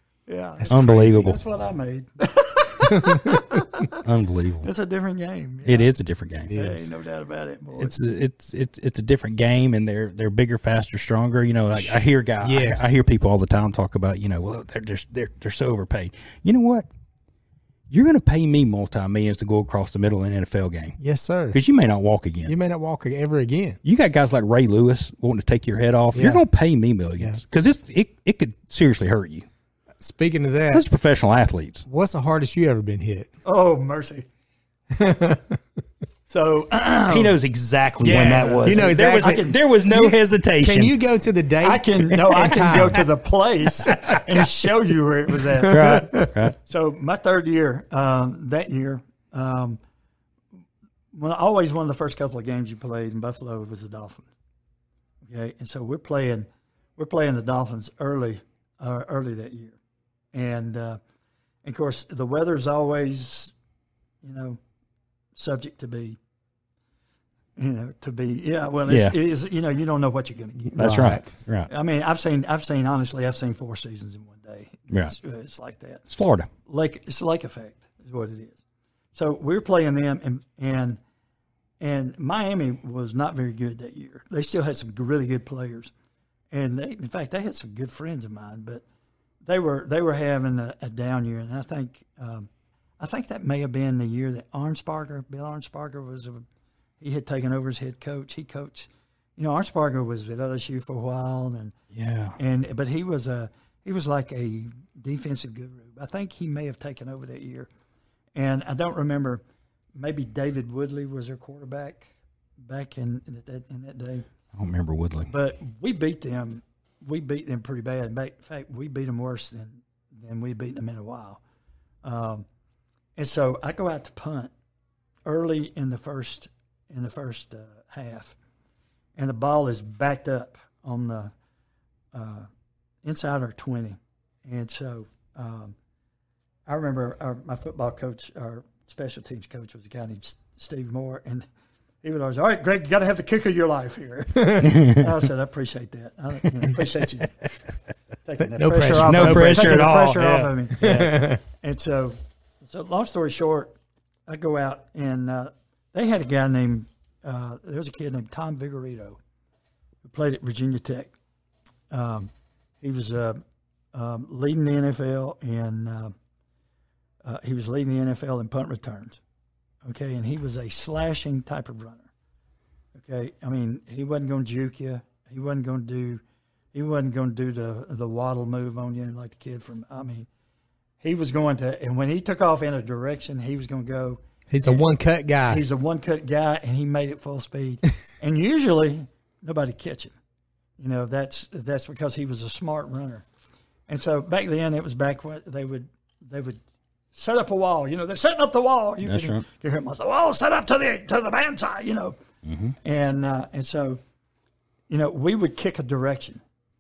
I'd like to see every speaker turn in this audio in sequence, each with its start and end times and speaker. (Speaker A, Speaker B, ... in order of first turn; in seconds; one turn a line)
Speaker A: 0.3-4.0
Speaker B: 0.6-1.2
Speaker C: 0.7-1.4
Speaker B: 2.9-3.4
Speaker C: 4.0-4.7
Speaker A: 4.6-5.9
Speaker C: 5.6-6.5
Speaker B: 6.5-6.9
Speaker A: 6.5-7.9
Speaker C: 7.8-16.9
Speaker B: 11.7-12.9
Speaker C: 17.9-21.0
Speaker B: 21.0-21.6
Speaker C: 21.5-22.5
Speaker B: 22.4-23.8
Speaker C: 23.8-29.4
Speaker B: 26.1-26.4
Speaker B: 30.0-30.8
Speaker C: 30.7-31.8
Speaker B: 31.9-33.3
Speaker A: 33.4-34.2
Speaker B: 34.9-35.6
Speaker A: 36.3-37.4
Speaker C: 37.1-40.9
Speaker B: 38.0-43.0
Speaker A: 38.0-39.6
Speaker A: 41.6-49.8
Speaker B: 45.6-46.3
Speaker C: 45.7-46.5
Speaker A: 51.1-54.2
Speaker A: 55.2-59.8
Speaker A: 60.3-61.0
Speaker A: 61.6-63.5
Speaker A: 64.2-64.6
Speaker A: 65.3-66.2
Speaker A: 67.5-71.1
Speaker C: 68.9-69.1
Speaker B: 70.6-71.3
Speaker C: 70.8-71.7
Speaker A: 71.7-76.1
Speaker C: 76.1-76.5
Speaker A: 76.7-78.6
Speaker A: 79.1-81.0
Speaker A: 81.8-85.9
Speaker A: 86.5-88.8
Speaker A: 89.4-92.5
Speaker A: 93.0-96.4
Speaker A: 97.0-101.7
Speaker C: 101.9-102.4
Speaker A: 102.4-107.7
Speaker A: 108.3-109.4
Speaker A: 110.0-112.1
Speaker A: 112.6-114.2
Speaker C: 114.5-115.3
Speaker A: 115.3-121.4
Speaker A: 122.0-122.5
Speaker A: 123.2-124.5
Speaker A: 125.2-128.3
Speaker A: 129.2-131.3
Speaker A: 132.1-132.5
Speaker A: 133.0-135.7
Speaker A: 136.7-141.4
Speaker A: 142.0-147.3
Speaker B: 144.3-144.8
Speaker C: 144.6-145.0
Speaker A: 148.2-153.7
Speaker B: 148.4-149.9
Speaker C: 148.9-151.2
Speaker B: 150.8-151.4
Speaker A: 154.3-159.2
Speaker A: 160.0-161.1
Speaker A: 161.9-163.4
Speaker A: 163.9-166.1
Speaker A: 167.2-169.2
Speaker A: 169.8-172.1
Speaker A: 172.9-176.2
Speaker A: 176.7-180.3
Speaker A: 181.0-184.9
Speaker B: 184.5-185.6
Speaker A: 185.4-190.1
Speaker A: 190.8-193.2
Speaker A: 193.9-196.6
Speaker A: 197.1-202.2
Speaker C: 199.0-199.4
Speaker C: 202.4-202.7
Speaker A: 202.8-204.0
Speaker A: 204.9-206.4